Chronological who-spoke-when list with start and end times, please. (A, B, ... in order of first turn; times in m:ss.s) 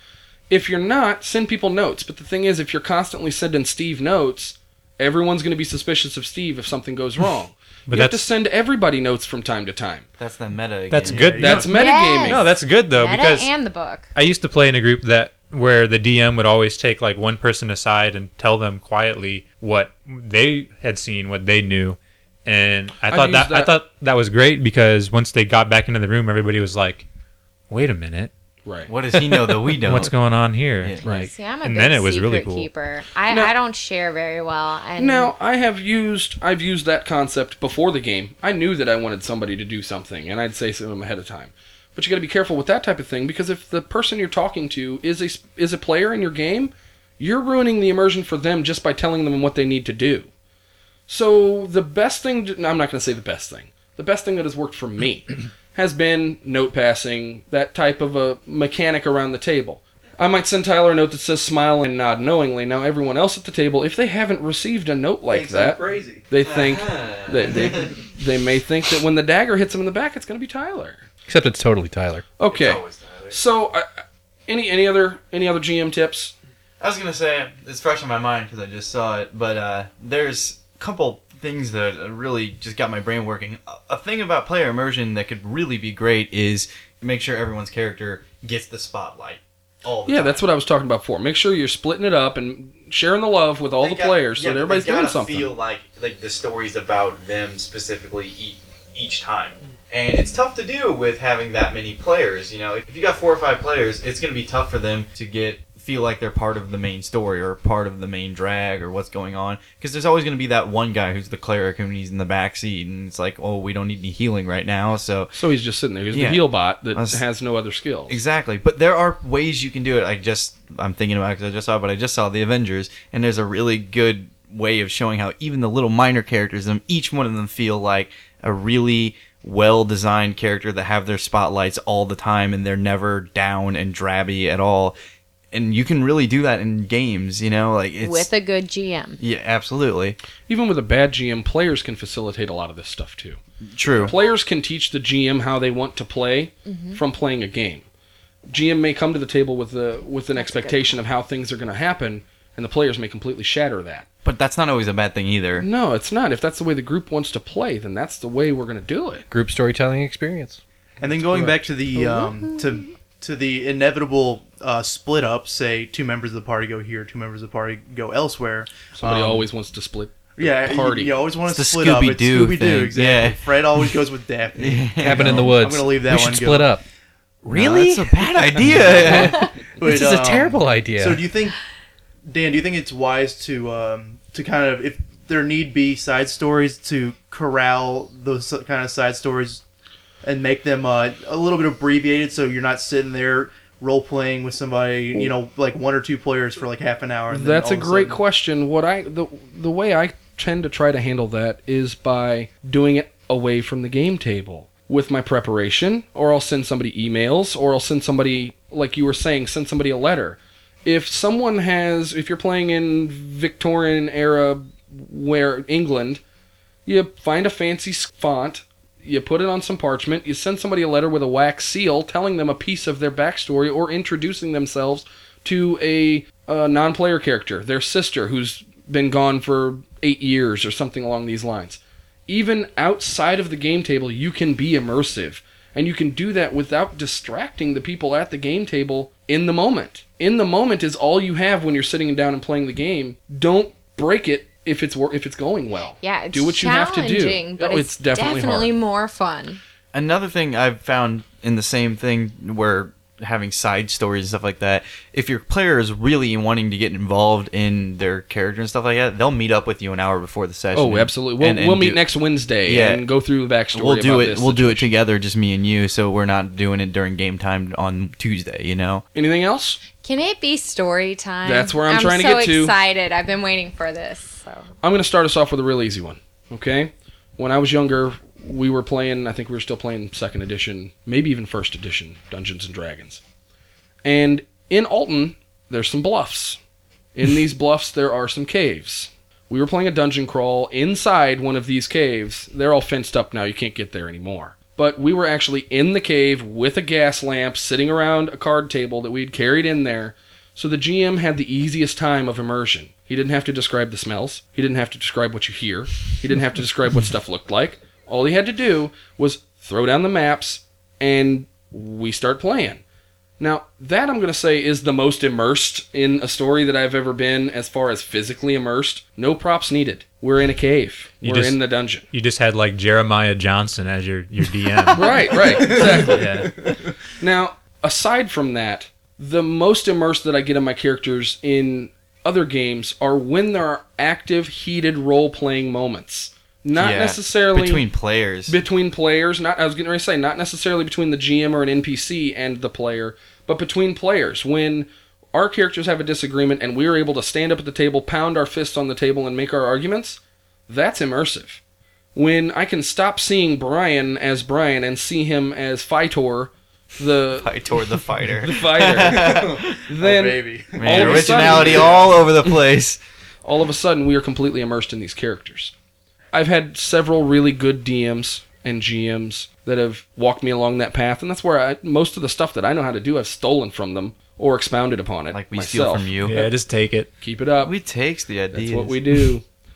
0:00.5-0:10.0 A
0:07.9-0:08.2 B
0:10.2-0:11.6 C
0:10.9-0:13.5 B
0:11.0-0:11.7 D
0:11.4-0:12.5 A
0:11.7-0:14.1 E
0:14.2-0:27.0 B
0:23.1-0:23.8 A
0:27.7-0:28.3 B
0:28.6-0:28.9 A
0:28.9-0:30.1 C
0:29.3-0:32.7 B
0:31.0-0:31.3 A
0:31.1-0:35.3 E
0:35.0-0:50.3 A
0:51.1-1:11.0 A
1:05.3-1:06.2 D
1:06.4-1:07.9 C
1:11.3-1:12.2 F
1:12.4-1:13.9 A
1:12.5-1:13.4 C
1:14.5-1:16.3 A
1:16.8-1:30.4 C
1:30.1-1:35.5 A
1:33.8-1:55.3 C
1:55.3-1:58.2 A
1:56.1-1:57.2 C
1:58.1-2:15.0 C
2:15.5-2:18.3 C
2:18.0-2:19.2 E
2:19.2-2:20.2 C
2:20.5-2:23.4 A
2:23.7-2:24.2 C
2:24.0-2:27.8 A
2:26.7-2:27.0 E
2:28.5-2:34.1 A
2:30.4-2:30.9 E
2:34.2-2:35.7 C
2:35.6-2:39.3 A
2:39.3-2:40.6 F
2:41.0-2:49.5 D
2:49.0-2:51.2 A
2:50.4-2:56.8 D
2:51.5-2:53.9 C
2:54.6-2:55.5 C
2:55.0-2:56.8 F
2:57.4-3:01.2 F
2:57.5-2:59.5 C
2:58.9-2:59.2 D
2:59.8-3:01.6 D
3:02.3-3:09.6 D
3:10.2-3:18.2 D
3:17.3-3:36.2 A
3:36.9-4:08.7 A
4:05.9-4:09.6 E
4:09.9-4:22.0 C
4:20.8-4:24.9 A
4:22.6-4:23.0 C
4:23.7-4:29.0 C
4:29.2-4:29.8 A
4:29.9-4:34.7 E
4:31.4-4:32.8 A
4:34.8-4:43.2 A
4:44.0-4:46.6 A
4:47.2-5:12.8 A
5:13.4-5:22.1 A
5:21.2-5:21.6 B
5:22.1-5:26.7 B
5:24.9-5:26.5 A
5:25.7-5:26.7 D
5:27.2-5:37.9 A
5:36.8-5:38.6 C
5:38.5-5:51.6 A
5:52.2-6:02.1 A
5:57.3-5:59.8 C
5:59.1-6:02.1 D
6:00.8-6:03.0 C
6:03.4-6:05.7 A
6:06.3-6:16.2 A
6:15.3-6:16.4 C
6:16.2-6:17.1 B
6:17.2-6:17.8 A
6:17.6-6:19.0 C
6:18.5-6:19.4 A